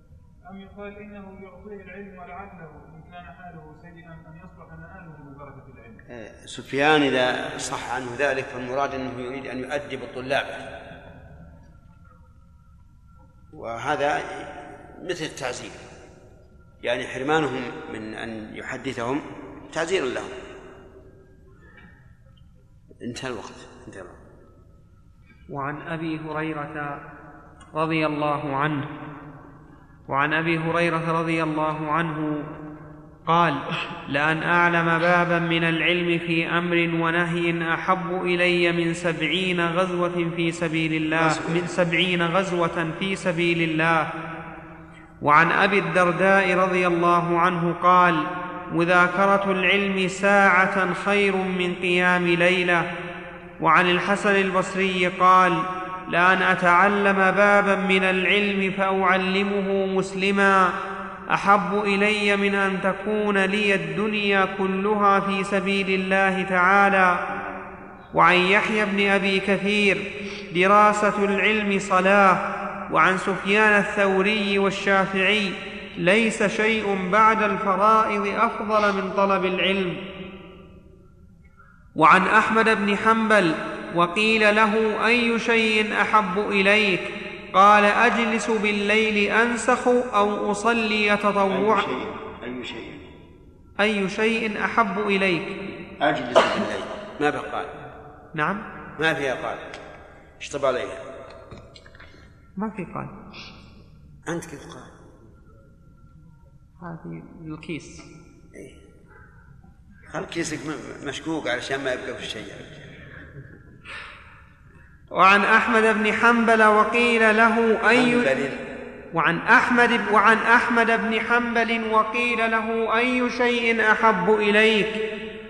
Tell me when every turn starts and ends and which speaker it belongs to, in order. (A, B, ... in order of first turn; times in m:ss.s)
0:00.4-0:06.0 A
0:06.1-0:10.7 B
0:13.5-0:15.8 B
0:16.8-0:20.4 B
0:23.0-0:24.2 B
0:25.5-0:27.0 C
0:27.7-0:28.9 C
0:30.1-0:32.5 C
0:33.3-0:44.1 C
0:41.1-0:41.7 B
0:45.2-0:52.9 C
0:53.6-1:00.7 C
1:01.3-1:07.2 C
1:08.1-1:20.0 C
1:22.0-1:31.8 C
1:31.5-1:33.1 B
1:33.8-1:35.6 C
1:36.0-1:37.7 B
1:38.3-1:38.6 C
1:39.0-1:39.6 B
1:40.4-1:41.1 B
1:42.6-1:43.1 C
1:44.3-1:44.9 B
1:46.8-1:48.1 C
1:48.5-1:48.8 B
1:50.1-1:52.9 B
1:55.1-1:58.3 C
1:57.9-1:58.6 B
1:59.1-2:05.0 C